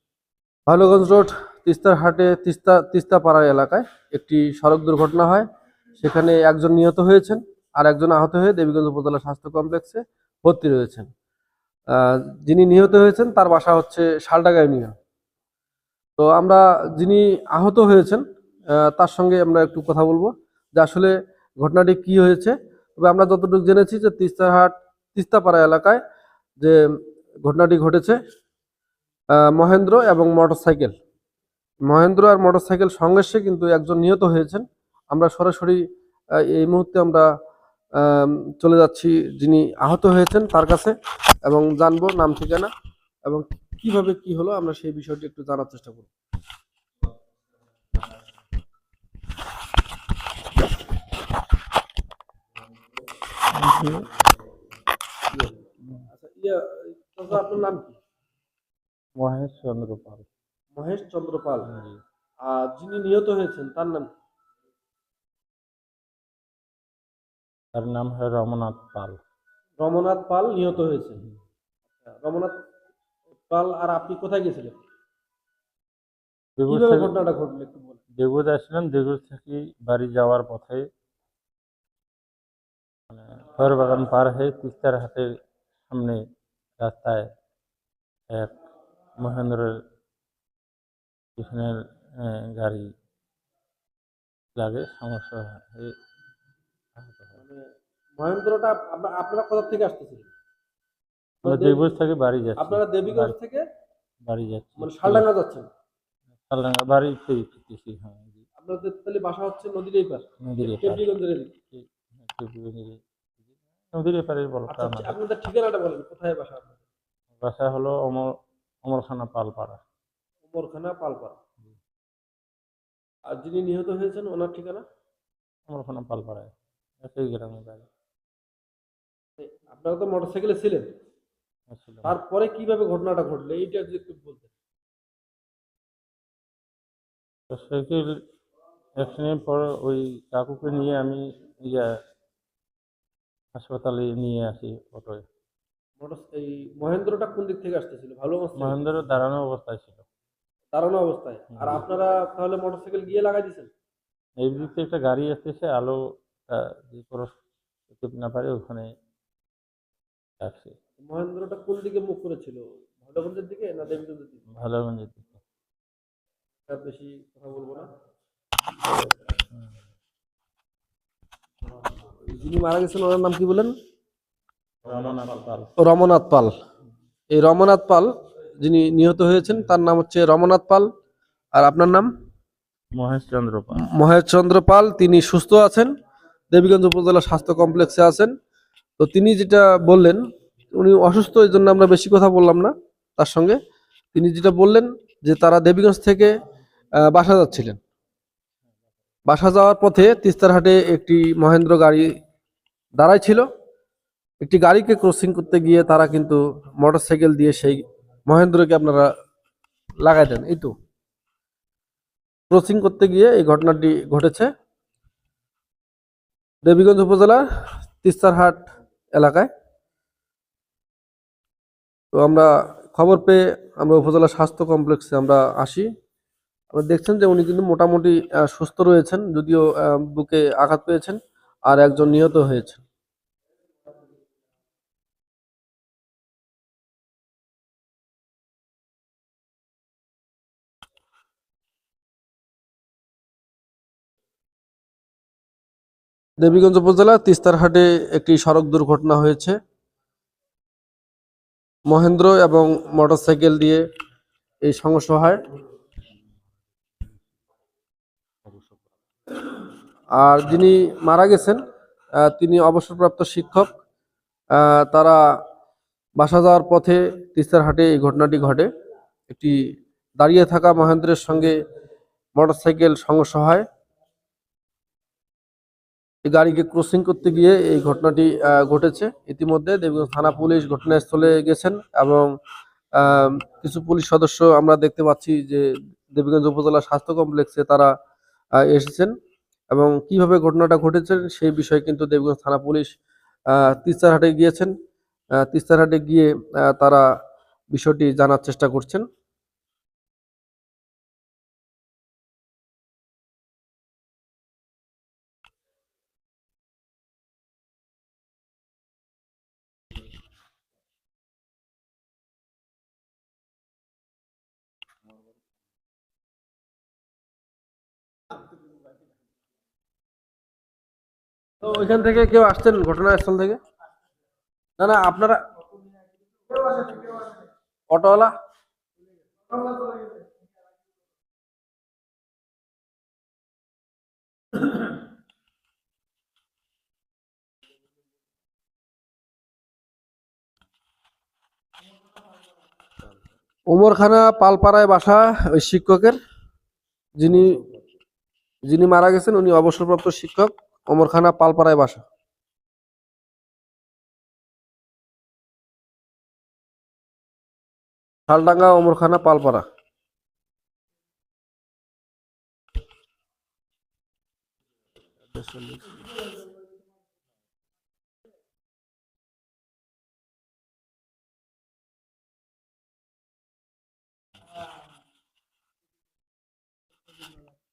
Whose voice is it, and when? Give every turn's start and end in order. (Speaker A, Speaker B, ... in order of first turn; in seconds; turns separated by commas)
Speaker A: 0.7-5.5, Speaker A: 6.0-11.1, Speaker A: 11.9-14.9, Speaker A: 16.2-18.2, Speaker A: 18.8-26.0, Speaker A: 27.4-28.2, Speaker A: 29.4-30.9, Speaker A: 31.9-35.8, Speaker A: 36.5-37.3, Speaker A: 38.0-40.9, Speaker A: 41.5-42.7, Speaker A: 43.3-46.1, Speaker B: 53.6-54.0, Speaker A: 55.3-58.0, Speaker B: 59.2-60.3, Speaker A: 60.8-61.7, Speaker B: 61.7-62.0, Speaker A: 62.4-64.1, Speaker B: 67.7-69.2, Speaker A: 69.8-71.2, Speaker A: 72.0-72.5, Speaker A: 73.5-74.7, Speaker B: 76.6-77.1, Speaker A: 76.7-78.0, Speaker B: 78.2-80.9, Speaker B: 83.1-85.3, Speaker B: 85.9-86.2, Speaker B: 86.8-87.3, Speaker B: 88.3-88.6, Speaker B: 89.2-89.7, Speaker B: 91.4-92.9, Speaker B: 94.6-96.0, Speaker B: 97.0-97.3, Speaker A: 97.4-97.6, Speaker A: 98.2-100.3, Speaker A: 101.4-101.9, Speaker B: 101.4-103.3, Speaker A: 102.6-103.6, Speaker B: 104.2-105.3, Speaker A: 104.8-105.7, Speaker B: 106.5-108.4, Speaker A: 108.6-111.5, Speaker B: 110.4-111.0, Speaker B: 111.7-113.0, Speaker B: 113.9-115.2, Speaker A: 114.7-116.8, Speaker B: 117.4-118.3, Speaker B: 118.8-119.8, Speaker A: 120.5-121.4, Speaker A: 123.3-124.8, Speaker B: 125.7-127.9, Speaker A: 129.4-130.9, Speaker B: 131.7-132.1, Speaker A: 132.0-134.5, Speaker B: 137.5-138.2, Speaker B: 139.0-141.9, Speaker B: 143.6-145.2, Speaker A: 146.0-148.8, Speaker B: 148.6-150.1, Speaker A: 150.7-153.7, Speaker B: 151.6-151.8, Speaker B: 154.4-157.3, Speaker B: 157.9-158.9, Speaker B: 160.4-160.8, Speaker A: 161.0-164.4, Speaker B: 164.6-165.4, Speaker A: 166.7-167.9, Speaker A: 172.3-173.7, Speaker B: 174.8-175.7, Speaker A: 175.8-176.5, Speaker A: 177.3-178.1, Speaker A: 178.6-180.9, Speaker A: 181.6-182.1, Speaker B: 182.9-183.8, Speaker A: 183.9-185.9, Speaker A: 186.5-188.3, Speaker A: 189.0-190.2, Speaker A: 190.7-193.6, Speaker A: 194.1-196.3, Speaker A: 197.1-197.8, Speaker A: 199.3-202.1, Speaker A: 203.0-203.5, Speaker A: 204.4-209.1, Speaker A: 210.0-210.7, Speaker A: 212.5-214.5, Speaker A: 216.6-217.4, Speaker A: 218.0-218.6, Speaker A: 219.2-219.5, Speaker A: 222.2-225.9, Speaker A: 226.7-232.8, Speaker A: 246.4-249.6, Speaker A: 251.9-253.8, Speaker A: 254.7-255.4, Speaker B: 258.4-258.9, Speaker A: 260.2-261.6, Speaker A: 262.2-263.7, Speaker A: 264.6-265.2, Speaker A: 266.2-268.7, Speaker A: 269.3-269.6, Speaker A: 270.2-271.6, Speaker A: 272.4-273.6, Speaker A: 276.3-282.3, Speaker A: 283.0-287.9, Speaker A: 288.6-289.1, Speaker A: 289.7-292.9, Speaker A: 293.5-294.7, Speaker A: 295.4-297.0, Speaker A: 297.7-299.1, Speaker A: 321.6-323.6, Speaker A: 324.8-325.4, Speaker A: 326.5-327.4, Speaker A: 327.9-328.3, Speaker A: 329.6-330.0, Speaker A: 343.7-346.2, Speaker A: 347.2-347.6, Speaker A: 348.7-352.0, Speaker A: 358.3-359.6, Speaker A: 365.3-366.1